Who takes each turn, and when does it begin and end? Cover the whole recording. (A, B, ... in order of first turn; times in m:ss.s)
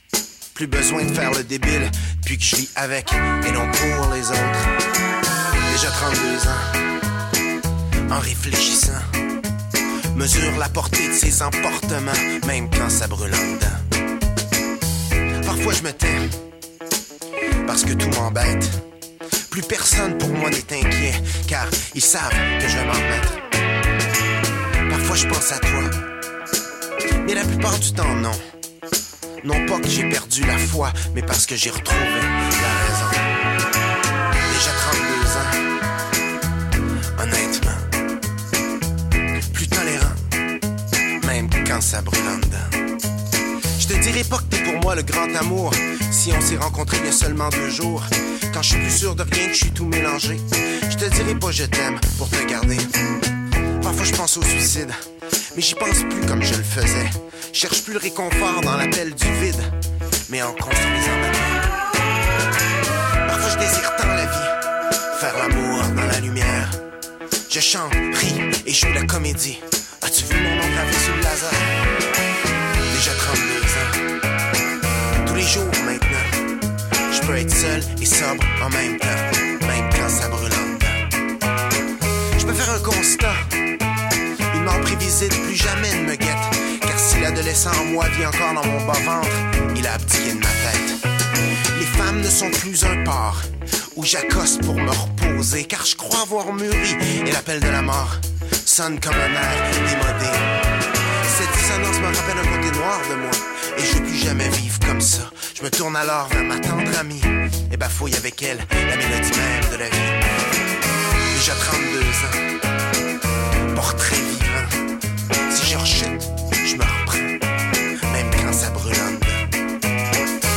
0:00.5-0:04.8 A
0:05.6-0:06.8 A
0:08.1-0:09.0 A
0:10.1-0:13.9 A
0:15.4-0:16.4 A
0:17.6-0:18.8 A
0:19.5-0:23.4 A
0:24.9-0:26.0 A
0:27.2-0:28.4 A
0:29.4-0:33.3 A
0:34.5-0:35.6 A
0:37.2-0:37.9 A
0:39.5-0:40.2 A
0:41.2-0:42.8 A
0:43.8-0:52.9 A
0:53.8-0:59.7 A
1:00.3-1:01.7 A
1:03.2-1:06.8 A
1:07.5-1:11.8 A
1:12.9-1:14.1 A
1:15.2-1:16.5 A
1:17.1-1:21.1 A
1:22.4-1:23.6 A
1:24.5-1:31.1 A
1:31.7-1:40.6 A
1:41.2-1:50.3 A
1:51.3-1:52.6 A
1:53.7-1:54.8 A
1:55.5-1:57.4 A
1:58.1-1:59.5 A